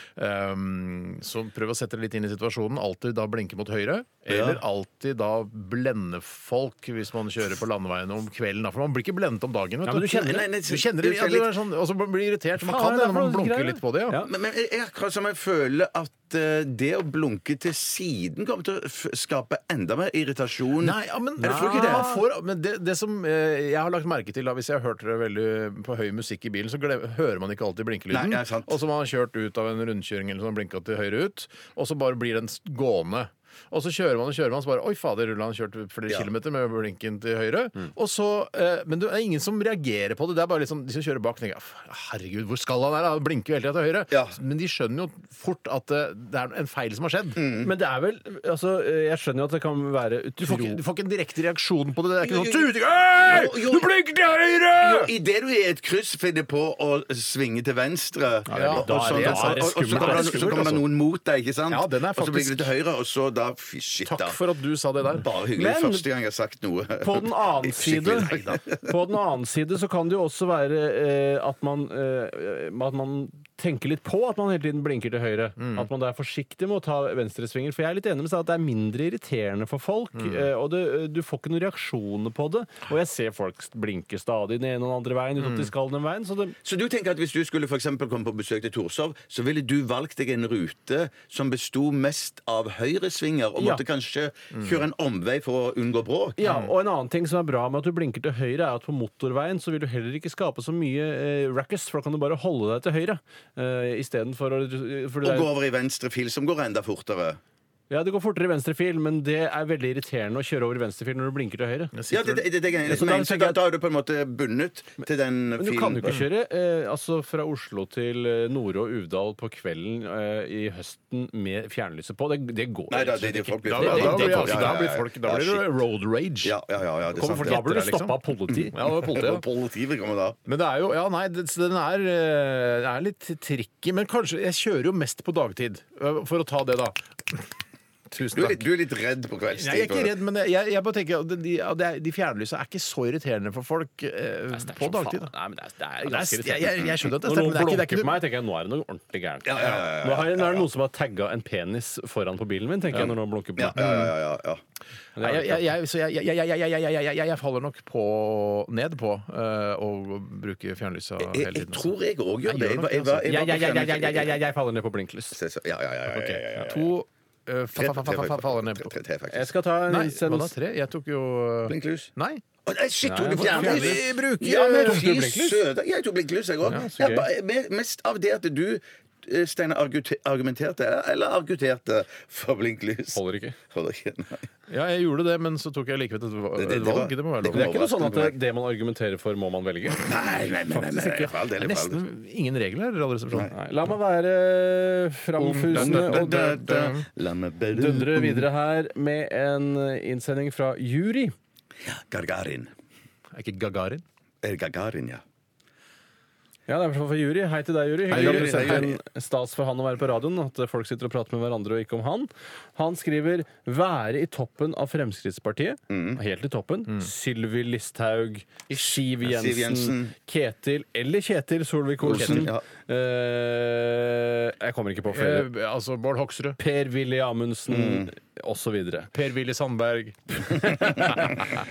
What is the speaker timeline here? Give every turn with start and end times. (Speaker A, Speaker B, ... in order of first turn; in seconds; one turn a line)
Speaker A: 0.2-14.2
Speaker B: 4.3-4.6
Speaker C: 9.9-10.4
Speaker B: 10.1-11.5
Speaker C: 12.6-14.3
Speaker B: 14.3-22.1
Speaker A: 20.8-47.4
Speaker C: 21.4-22.2
Speaker B: 28.1-28.7
Speaker B: 44.1-44.4
Speaker B: 47.4-47.7
Speaker C: 47.6-50.8
Speaker A: 50.4-55.1
Speaker B: 52.2-53.9
Speaker B: 54.8-64.4
Speaker A: 58.5-60.8
Speaker C: 58.6-60.8
Speaker A: 61.7-62.7
Speaker A: 64.0-65.3
Speaker B: 65.1-68.8
Speaker C: 65.5-66.0
Speaker C: 67.0-86.5
Speaker A: 67.9-68.6
Speaker A: 75.6-75.9
Speaker A: 80.1-80.5
Speaker A: 85.4-85.7
Speaker B: 86.6-96.4
Speaker C: 96.4-105.5
Speaker A: 96.4-96.7
Speaker B: 105.2-107.4
Speaker C: 107.9-112.0
Speaker A: 111.9-112.4
Speaker B: 112.1-116.2
Speaker C: 112.8-113.6
Speaker C: 115.6-124.9
Speaker B: 122.9-125.7
Speaker A: 123.7-126.5
Speaker B: 126.4-127.6
Speaker C: 127.1-128.8
Speaker A: 127.1-128.2
Speaker B: 128.5-130.4
Speaker A: 128.7-129.4
Speaker A: 130.4-137.5
Speaker A: 138.1-138.6
Speaker B: 138.3-140.1
Speaker A: 139.5-145.3
Speaker C: 144.5-153.8
Speaker A: 146.0-148.2
Speaker B: 149.4-150.7
Speaker B: 152.9-154.6
Speaker A: 153.7-154.1
Speaker C: 155.2-155.6
Speaker A: 155.2-163.3
Speaker B: 161.2-164.4
Speaker C: 163.3-165.4
Speaker B: 165.3-166.9
Speaker A: 166.1-168.9
Speaker B: 167.7-169.5
Speaker C: 169.3-170.5
Speaker A: 169.9-172.4
Speaker B: 171.7-172.1
Speaker B: 172.7-184.5
Speaker C: 173.1-174.1
Speaker A: 173.3-175.1
Speaker C: 174.8-175.6
Speaker C: 176.7-177.3
Speaker C: 183.1-183.6
Speaker A: 184.7-187.7
Speaker B: 186.6-188.4
Speaker C: 187.5-191.3
Speaker B: 189.9-192.0
Speaker A: 191.5-193.5
Speaker C: 193.5-196.3
Speaker A: 195.4-197.1
Speaker B: 195.7-198.3
Speaker C: 197.7-201.3
Speaker B: 201.9-202.7
Speaker A: 203.3-204.0
Speaker B: 204.4-205.2
Speaker C: 206.7-225.5
Speaker A: 208.1-208.9
Speaker B: 208.1-208.9
Speaker B: 215.9-216.2
Speaker A: 218.7-219.0
Speaker B: 219.2-220.1
Speaker B: 222.0-222.6
Speaker A: 222.1-222.5
Speaker A: 225.1-226.6
Speaker C: 226.6-229.1
Speaker B: 227.7-228.1
Speaker A: 229.1-231.4
Speaker C: 230.6-231.3